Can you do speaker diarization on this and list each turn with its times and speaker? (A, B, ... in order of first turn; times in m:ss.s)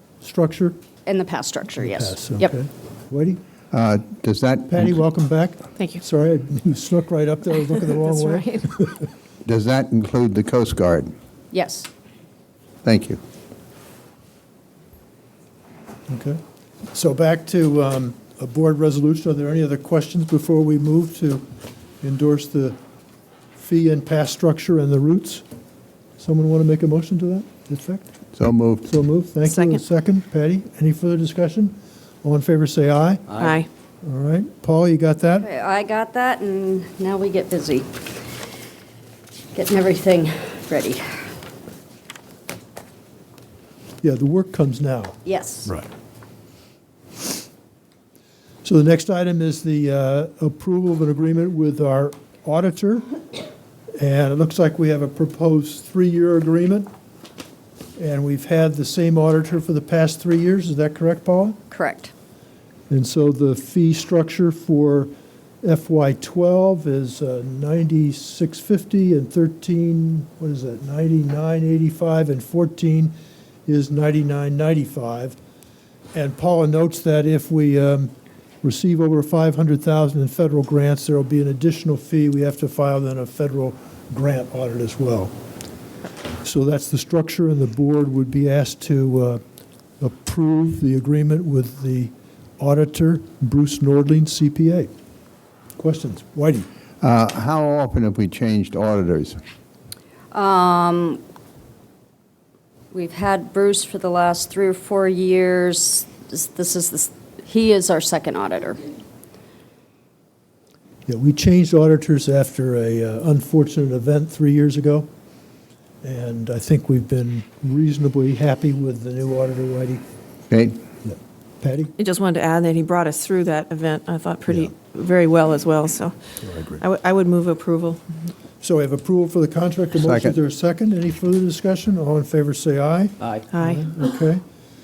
0:00.2-0:00.8 A
0:01.1-0:02.5 B
0:01.8-0:03.4 A
0:03.7-0:05.0 C
0:04.7-0:09.1 A
0:08.1-0:08.7 D
0:09.4-0:11.1 C
0:11.5-0:11.9 B
0:12.8-0:13.2 C
0:16.1-0:16.4 A
0:16.9-0:21.4 A
0:22.0-0:22.8 A
0:23.6-0:25.4 A
0:26.2-0:28.1 A
0:28.4-0:28.9 C
0:28.9-0:33.3 A
0:29.4-0:29.8 D
0:33.4-0:33.7 D
0:34.0-0:35.5 A
0:35.4-0:38.0 B
0:39.5-0:41.2 B
0:44.0-0:45.2 A
0:45.2-0:45.7 B
0:48.6-0:53.0 A
0:54.0-0:56.9 A
0:58.0-1:01.6 A
1:01.7-1:02.1 B
1:02.9-1:05.1 A
1:05.6-1:13.1 A
1:13.7-1:15.4 A
1:16.1-1:25.3 A
1:26.4-1:29.4 A
1:30.0-1:34.9 A
1:35.8-1:36.7 A
1:37.0-1:39.4 C
1:40.3-1:41.2 B
1:42.9-1:48.8 B
1:51.1-1:55.1 A
1:56.0-2:00.0 A
2:00.5-2:00.8 C
2:01.0-2:01.9 A
2:02.0-2:06.2 D
2:06.4-2:06.8 A
2:06.8-2:08.0 D
2:08.6-2:14.4 A
2:10.0-2:10.4 C
2:13.5-2:13.9 D